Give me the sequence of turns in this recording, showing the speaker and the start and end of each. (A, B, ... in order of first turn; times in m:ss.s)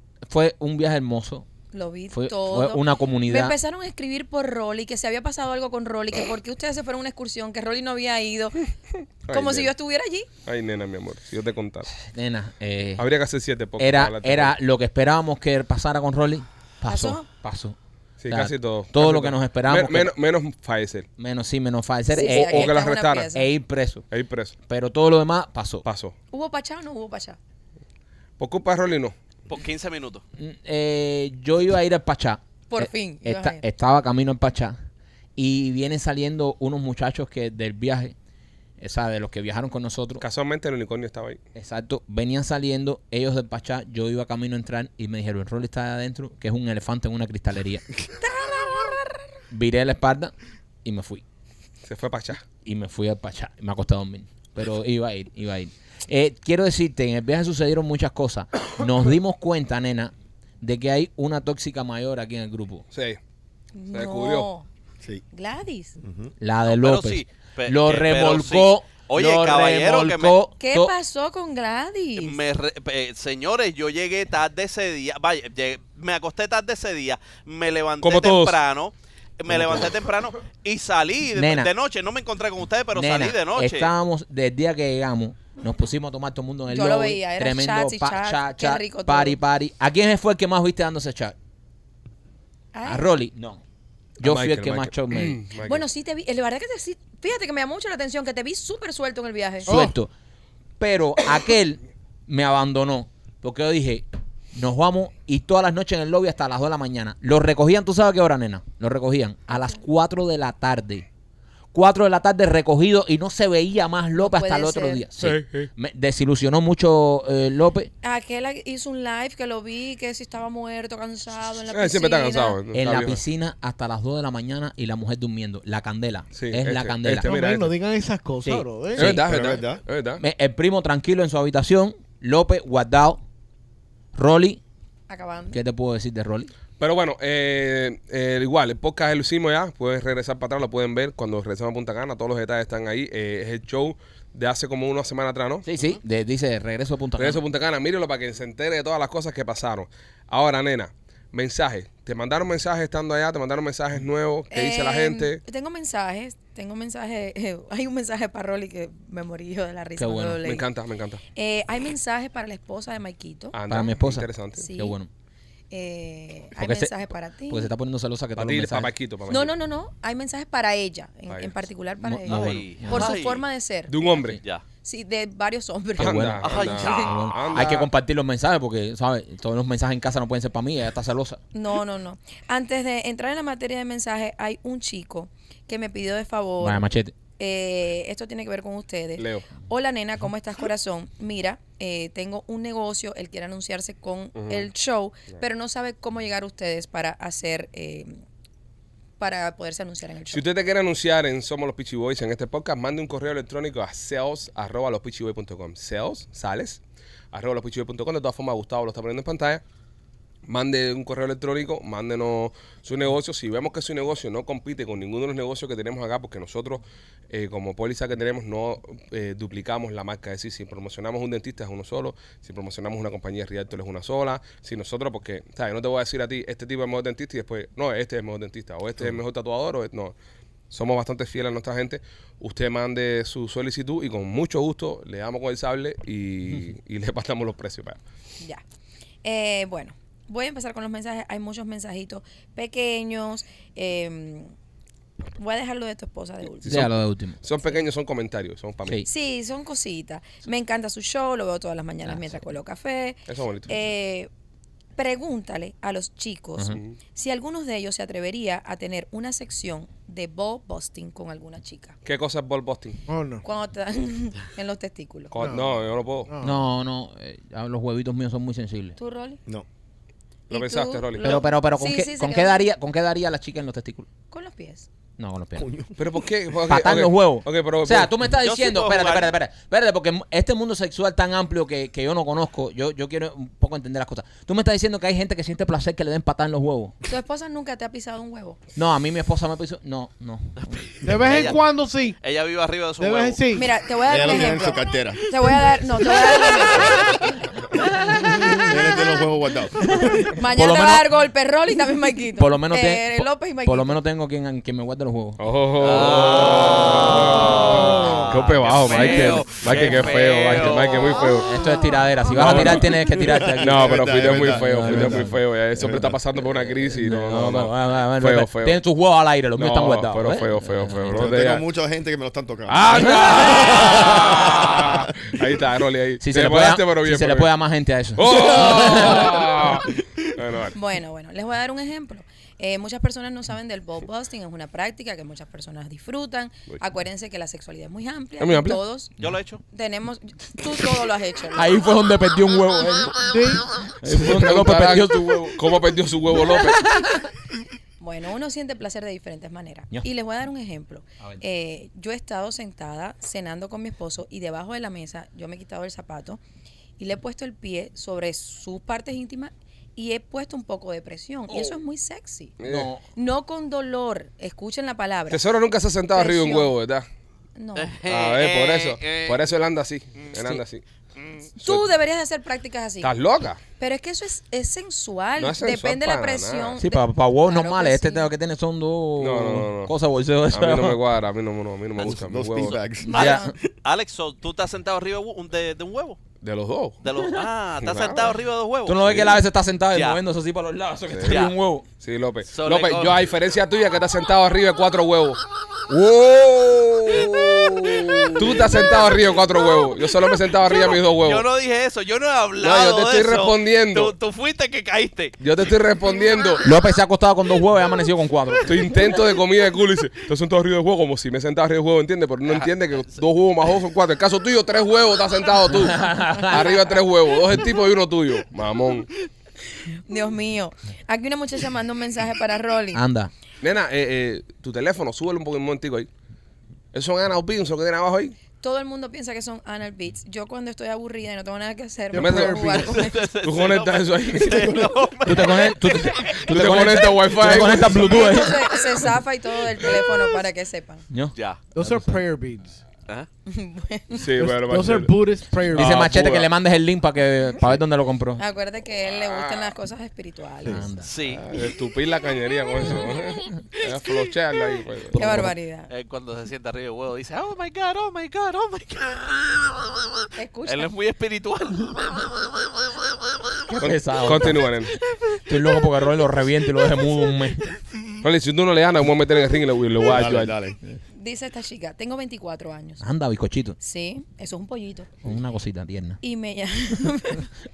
0:00.3-0:01.4 A
0:01.7-0:08.6 B
0:02.1-0:03.5 A
0:09.2-0:09.7 C
0:09.3-0:10.3 B
0:10.4-0:11.9 C
0:11.9-0:13.0 A
0:13.0-0:14.5 C
0:13.8-0:17.8 A
0:16.8-0:17.3 B
0:18.2-0:21.1 C
0:18.3-0:20.1 A
0:21.2-0:24.0 A
0:22.1-0:23.5 B
0:22.2-0:23.3 C
0:24.1-0:24.5 C
0:24.7-0:25.8 A
0:25.8-0:26.1 C
0:26.3-0:27.4 B
0:28.4-0:29.1 C
0:29.5-0:30.2 D
0:30.4-0:34.8 A
0:32.7-0:33.6 B
0:35.4-0:38.1 A
0:38.8-0:40.2 A
0:40.2-0:41.4 C
0:41.5-0:47.8 A
0:48.2-0:49.2 B
0:49.5-0:50.3 A
0:50.8-0:51.2 A
0:51.8-0:52.4 C
0:52.6-1:02.8 A
1:02.9-1:03.2 C
1:03.7-1:04.6 B
1:03.9-1:04.5 C
1:05.3-1:06.0 B
1:06.0-1:06.3 E
1:06.4-1:10.9 A
1:06.7-1:10.4 D
1:10.6-1:12.4 B
1:12.2-1:23.9 D
1:18.0-1:18.6 C
1:19.5-1:19.9 C
1:21.4-1:21.7 A
1:22.9-1:31.3 A
1:26.7-1:29.4 B
1:32.7-1:33.1 B
1:32.8-1:33.6 A
1:34.2-1:35.4 A
1:34.2-1:35.9 C
1:35.6-1:39.7 B
1:39.6-1:40.1 A
1:39.7-1:40.0 F
1:40.8-1:51.0 A
1:49.5-1:49.8 B
1:51.7-1:57.9 A
1:54.2-1:55.0 B
1:55.2-1:55.7 C
1:58.0-2:02.6 B
2:01.7-2:03.2 C
2:02.7-2:07.3 A
2:06.3-2:07.8 C
2:07.2-2:09.1 F
2:08.4-2:09.2 A
2:09.0-2:10.2 C
2:09.2-2:09.8 E
2:10.2-2:13.2 A
2:14.1-2:14.6 A
2:15.1-2:15.6 B
2:15.5-2:16.5 A
2:16.8-2:25.7 C
2:25.6-2:27.4 A
2:27.2-2:35.4 C
2:34.5-2:40.6 B
2:40.0-2:40.4 A
2:40.4-2:41.2 C
2:41.3-2:43.6 B
2:43.5-2:44.7 C
2:43.7-2:45.1 A
2:44.6-2:45.0 B
2:45.7-2:47.7 B
2:46.5-2:46.9 A
2:47.5-2:48.9 A
2:48.4-2:49.5 C
2:49.3-2:54.0 B
2:51.3-2:51.6 C
2:52.0-2:53.2 A
2:52.3-2:53.4 D
2:53.9-2:54.4 C
2:54.8-2:57.1 B
2:56.0-3:01.4 A
2:56.0-2:57.9 C
2:56.4-2:57.6 D
3:01.5-3:18.2 B
3:06.6-3:07.1 A
3:09.2-3:09.5 C
3:14.4-3:14.7 C
3:19.2-3:20.5 B
3:20.3-3:29.6 C
3:30.4-3:50.2 C
3:50.7-3:58.0 C
3:59.2-4:04.5 B
4:05.4-4:06.9 B
4:06.6-4:09.0 C
4:06.6-4:07.4 A
4:09.0-4:14.3 B
4:12.0-4:12.4 A
4:13.3-4:13.9 C
4:15.0-4:22.0 B
4:22.0-4:23.0 C
4:23.1-4:23.4 F
4:23.4-4:25.3 B
4:25.3-4:26.3 C
4:25.4-4:26.7 F
4:26.4-4:28.9 A
4:29.0-4:29.4 B
4:30.5-4:32.7 B
4:30.5-4:31.3 C
4:31.2-4:34.1 A
4:34.3-4:34.9 B
4:35.2-4:35.7 A
4:35.6-4:36.0 E
4:36.0-4:38.3 C
4:36.7-4:47.0 A
4:38.4-4:39.3 D
4:47.0-4:48.6 B
4:48.8-4:50.5 A
4:50.6-4:51.6 D
4:51.0-4:52.2 F
4:52.2-4:53.4 D
4:53.0-4:53.7 F
4:53.5-4:57.3 B
4:54.1-4:55.2 E
4:58.6-4:59.9 E
5:00.3-5:04.0 B
5:00.5-5:01.0 A
5:02.4-5:05.4 A
5:05.4-5:11.6 C
5:05.8-5:11.3 D
5:11.3-5:15.4 A
5:12.3-5:13.0 C
5:12.6-5:16.2 E
5:13.6-5:18.8 C
5:16.8-5:21.3 A
5:19.6-5:21.6 C
5:21.1-5:25.3 E
5:22.7-5:27.5 C
5:22.9-5:24.0 A
5:26.2-5:29.5 A
5:28.1-5:30.8 C
5:30.7-5:39.1 B
5:38.4-5:38.8 C
5:39.2-5:39.6 D
5:39.7-5:41.9 B
5:41.5-5:45.6 A
5:43.2-5:43.7 F
5:44.0-5:46.9 C
5:46.9-5:47.2 A
5:48.0-5:56.4 B
5:57.0-6:02.6 B
6:01.5-6:01.8 A
6:02.6-6:02.9 C
6:02.6-6:03.0 A
6:03.2-6:05.4 B
6:05.3-6:07.1 C
6:06.1-6:06.7 B
6:07.6-6:07.9 B
6:07.8-6:09.4 D
6:08.0-6:10.8 C
6:11.6-6:13.1 B
6:13.0-6:13.6 C
6:13.8-6:18.3 B
6:15.4-6:16.8 C
6:16.8-6:21.0 A
6:19.2-6:19.9 C
6:20.5-6:22.8 C
6:22.0-6:23.4 E
6:22.6-6:26.2 D
6:23.1-6:23.4 A
6:23.1-6:23.5 B
6:26.4-6:27.0 C
6:27.0-6:29.3 D
6:27.8-6:28.4 C
6:28.8-6:31.9 A
6:29.9-6:30.2 D
6:31.1-6:35.4 C
6:31.2-6:31.5 D
6:32.5-6:33.2 D
6:35.9-6:38.4 A
6:38.4-6:41.4 C
6:40.6-6:45.4 D
6:42.6-6:44.1 C
6:45.4-6:46.7 C
6:46.6-6:49.1 A
6:48.6-6:59.1 C
6:55.8-6:56.7 A
7:00.1-7:03.0 B
7:02.9-7:03.3 A
7:03.6-7:06.1 C
7:06.9-7:08.4 C
7:08.6-7:13.2 B
7:12.1-7:13.0 F
7:12.2-7:14.9 C
7:12.9-7:16.4 D
7:15.2-7:19.0 A
7:16.2-7:18.3 C
7:17.9-7:21.0 B
7:21.1-7:22.2 A
7:21.3-7:21.6 D
7:21.7-7:22.8 F
7:23.5-7:24.2 B
7:24.1-7:25.1 C
7:24.4-7:26.1 F
7:25.7-7:26.5 C
7:25.7-7:28.4 A
7:28.4-7:30.9 B
7:29.1-7:29.7 C
7:30.6-7:31.1 A
7:31.0-7:31.4 D
7:31.2-7:35.2 C
7:35.1-7:35.5 A
7:35.1-7:35.9 B
7:35.9-7:40.0 D
7:40.4-7:40.9 B
7:40.6-7:42.5 D
7:43.7-7:44.7 A
7:43.8-7:44.9 C
7:45.4-7:47.7 A
7:48.2-7:50.6 C
7:50.0-7:50.8 E
7:51.2-7:53.0 B
7:53.0-7:53.8 A
7:53.8-7:55.2 B
7:55.2-7:56.2 A
7:56.2-7:57.5 B